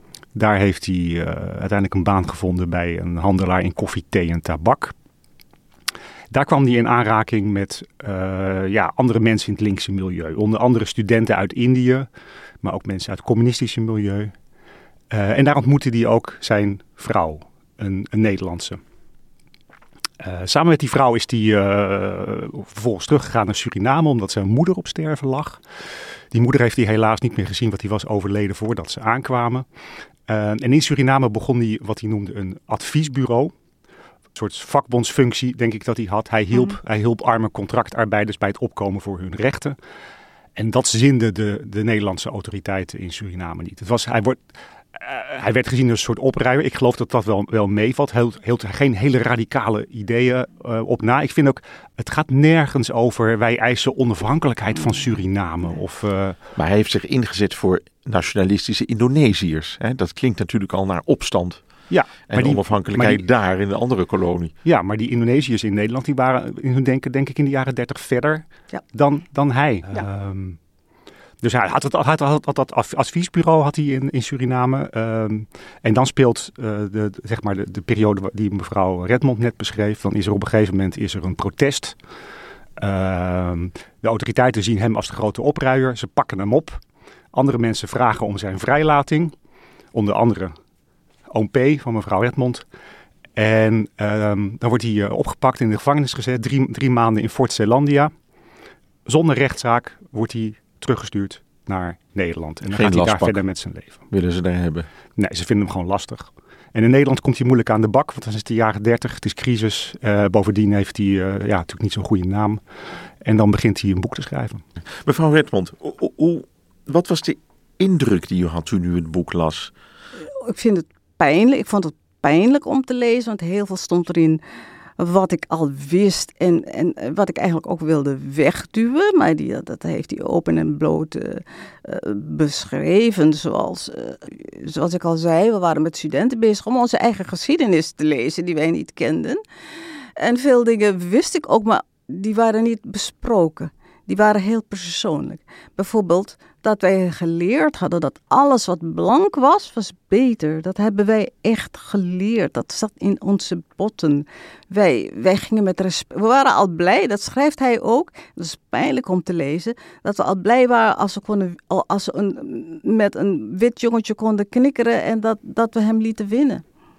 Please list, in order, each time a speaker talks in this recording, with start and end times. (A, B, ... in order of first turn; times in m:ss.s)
0:00.4-0:05.0 A
0:06.3-0:12.1 A
0:12.6-0:14.3 A
0:15.1-0:18.8 A
0:20.2-0:25.6 A
0:26.3-0:29.7 A
0:30.3-0:33.5 A
0:34.4-0:39.8 A
0:40.6-0:44.4 A
0:44.9-0:56.4 A
0:56.6-1:01.6 B
1:01.9-1:03.2 A
1:02.3-1:04.5 B
1:04.6-1:10.6 A
1:11.4-1:22.0 A
1:22.8-1:26.8 A
1:27.3-1:29.4 A
1:29.9-1:30.5 A
1:31.3-1:32.6 A
1:33.4-1:38.1 A
1:39.1-1:44.0 A
1:42.7-1:43.4 B
1:44.1-1:44.9 B
1:45.2-1:52.6 A
1:53.2-1:54.6 A
1:55.0-1:59.7 B
2:00.2-2:04.4 C
2:05.0-2:19.4 C
2:20.2-2:46.6 C